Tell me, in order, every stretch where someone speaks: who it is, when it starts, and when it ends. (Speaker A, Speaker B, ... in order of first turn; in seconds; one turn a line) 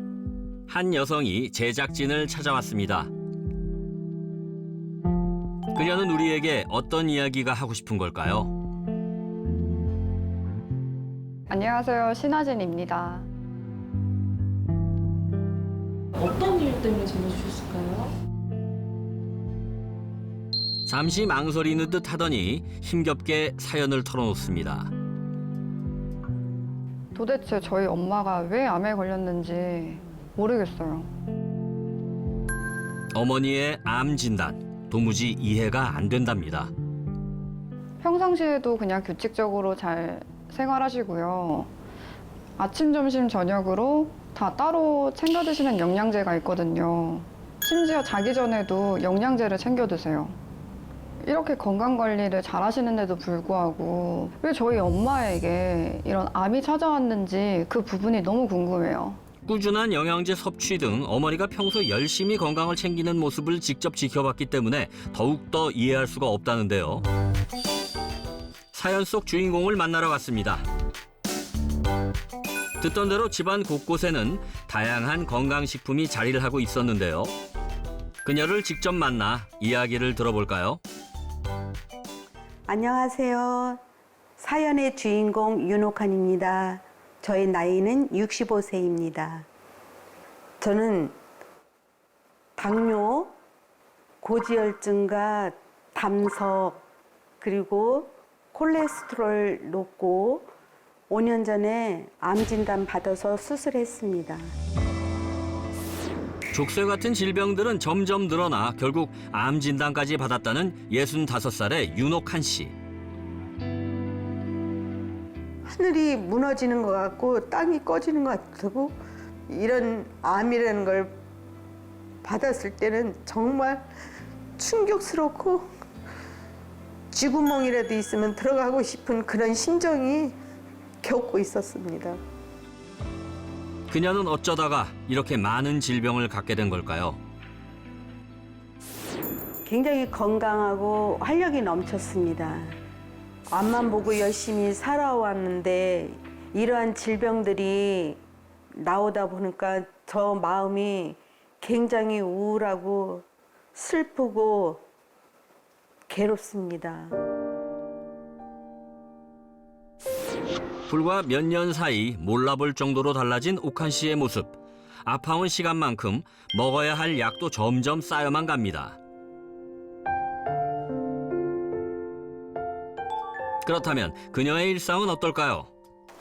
Speaker A: 0.7-3.1
Speaker A: 5.7-8.5
Speaker B: 11.5-13.3
Speaker C: 16.2-18.1
Speaker A: 20.9-24.9
Speaker B: 27.1-31.1
Speaker A: 33.1-36.7
Speaker B: 38.0-41.7
Speaker B: 42.6-50.4
Speaker B: 51.2-59.2
Speaker A: 59.5-67.0
Speaker A: 68.7-70.6
Speaker A: 72.8-77.3
Speaker A: 78.2-80.8
Speaker D: 82.7-83.8
Speaker D: 84.4-89.5
Speaker D: 90.6-91.2
Speaker D: 92.6-93.3
Speaker D: 94.2-96.8
Speaker D: 97.4-100.5
Speaker D: 101.1-104.5
Speaker A: 106.5-112.7
Speaker D: 115.7-119.0
Speaker D: 119.5-121.2
Speaker D: 122.2-123.9
Speaker D: 124.6-125.7
Speaker D: 127.1-130.4
Speaker D: 131.0-132.2
Speaker A: 133.9-137.2
Speaker D: 139.7-142.8
Speaker D: 143.5-148.2
Speaker D: 148.7-154.8
Speaker D: 156.1-157.2
Speaker A: 160.9-169.0
Speaker A: 173.6-175.7